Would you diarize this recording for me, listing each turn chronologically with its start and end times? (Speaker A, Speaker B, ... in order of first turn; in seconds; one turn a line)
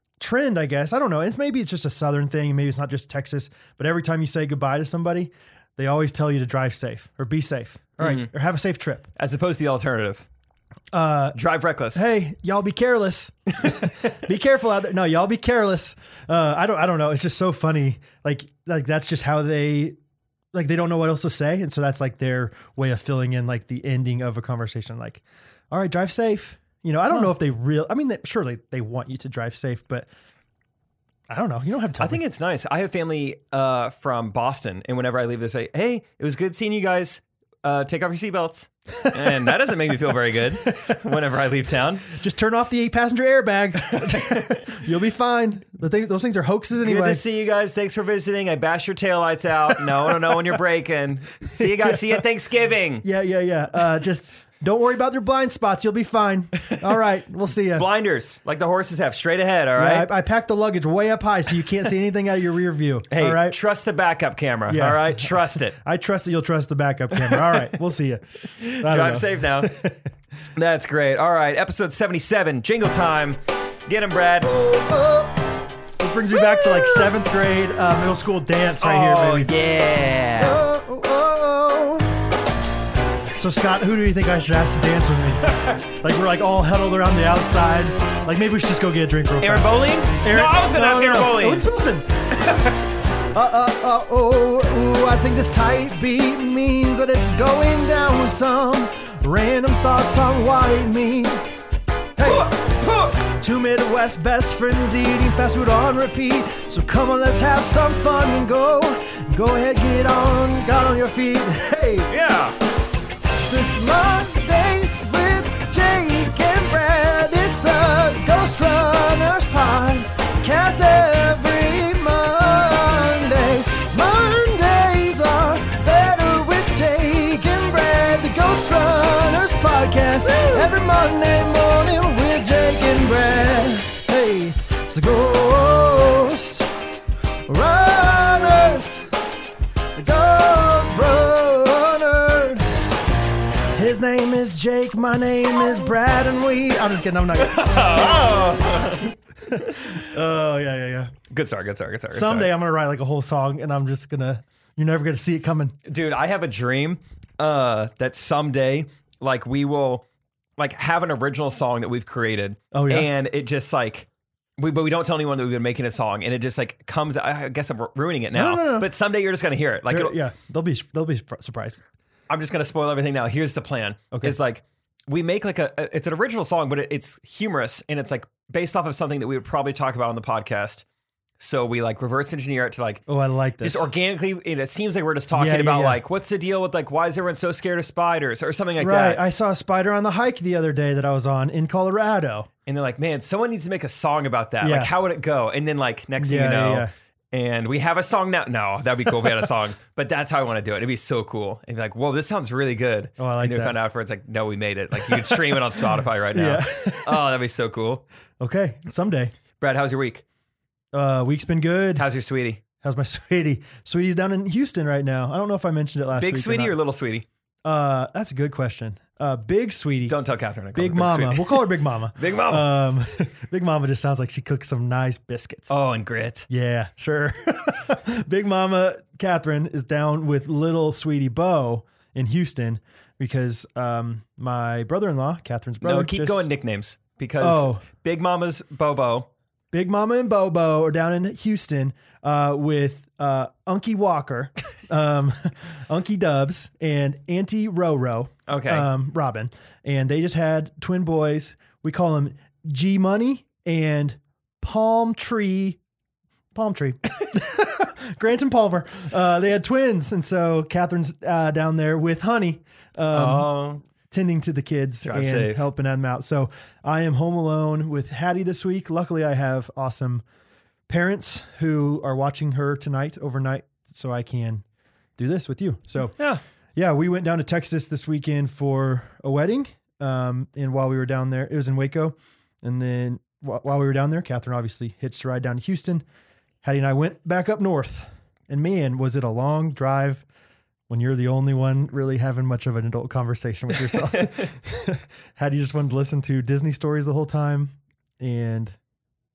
Speaker A: 0.2-9.1
Speaker B: 8.0-8.3
Speaker B: 9.2-10.3
Speaker A: 10.9-11.4
Speaker B: 11.3-12.1
Speaker A: 11.9-20.0
Speaker B: 13.6-13.9
Speaker A: 20.5-30.1
Speaker B: 27.1-27.4
Speaker A: 31.3-32.2
Speaker B: 32.0-42.2
Speaker A: 39.0-39.5
Speaker A: 42.1-47.2
Speaker B: 43.9-44.7
Speaker B: 46.8-53.1
Speaker A: 51.5-52.2
Speaker A: 53.0-57.9
Speaker B: 57.7-60.1
Speaker A: 59.8-63.6
Speaker B: 63.1-65.8
Speaker A: 64.7-70.0
Speaker B: 67.2-67.8
Speaker B: 68.6-69.7
Speaker B: 70.6-74.5
Speaker A: 74.5-75.4
Speaker A: 76.0-79.5
Speaker B: 76.3-77.1
Speaker B: 78.8-80.6
Speaker A: 80.4-82.1
Speaker A: 83.4-92.1
Speaker B: 85.5-85.8
Speaker B: 89.4-91.7
Speaker B: 92.4-92.7
Speaker A: 93.3-101.4
Speaker A: 102.2-102.5
Speaker B: 102.2-103.2
Speaker A: 103.2-112.1
Speaker B: 112.1-112.5
Speaker A: 113.4-136.7
Speaker B: 130.3-130.7
Speaker A: 137.5-139.1
Speaker A: 140.0-143.0
Speaker A: 143.7-147.7
Speaker B: 147.3-149.8
Speaker A: 149.5-151.1
Speaker B: 151.3-152.5
Speaker A: 152.1-155.8
Speaker B: 155.8-160.1
Speaker B: 160.6-170.2
Speaker A: 162.7-163.1
Speaker A: 168.3-168.9
Speaker A: 169.9-171.8
Speaker B: 172.3-180.8
Speaker A: 174.1-174.4
Speaker B: 181.4-183.0
Speaker A: 183.1-183.9
Speaker B: 183.6-189.2
Speaker A: 185.3-186.0
Speaker A: 188.8-192.5
Speaker B: 192.7-208.0
Speaker A: 194.6-194.9
Speaker A: 196.2-196.9
Speaker A: 203.2-203.8
Speaker A: 205.0-207.2
Speaker A: 208.4-209.3
Speaker B: 209.6-210.2
Speaker A: 210.9-212.1
Speaker B: 211.9-212.6
Speaker A: 212.8-216.8
Speaker B: 216.2-217.3
Speaker A: 217.7-220.2
Speaker B: 220.1-222.8
Speaker A: 220.7-225.7
Speaker B: 225.7-226.5
Speaker A: 226.5-236.5
Speaker B: 235.8-239.3
Speaker A: 237.4-237.8
Speaker A: 239.7-255.8
Speaker B: 248.5-248.9
Speaker A: 256.6-263.5
Speaker B: 263.1-263.8
Speaker A: 264.1-270.2
Speaker B: 265.0-265.6
Speaker A: 270.9-274.6
Speaker A: 275.2-276.2
Speaker B: 276.2-276.4
Speaker A: 276.8-286.0
Speaker A: 286.6-290.2
Speaker A: 290.9-298.8
Speaker B: 293.9-294.5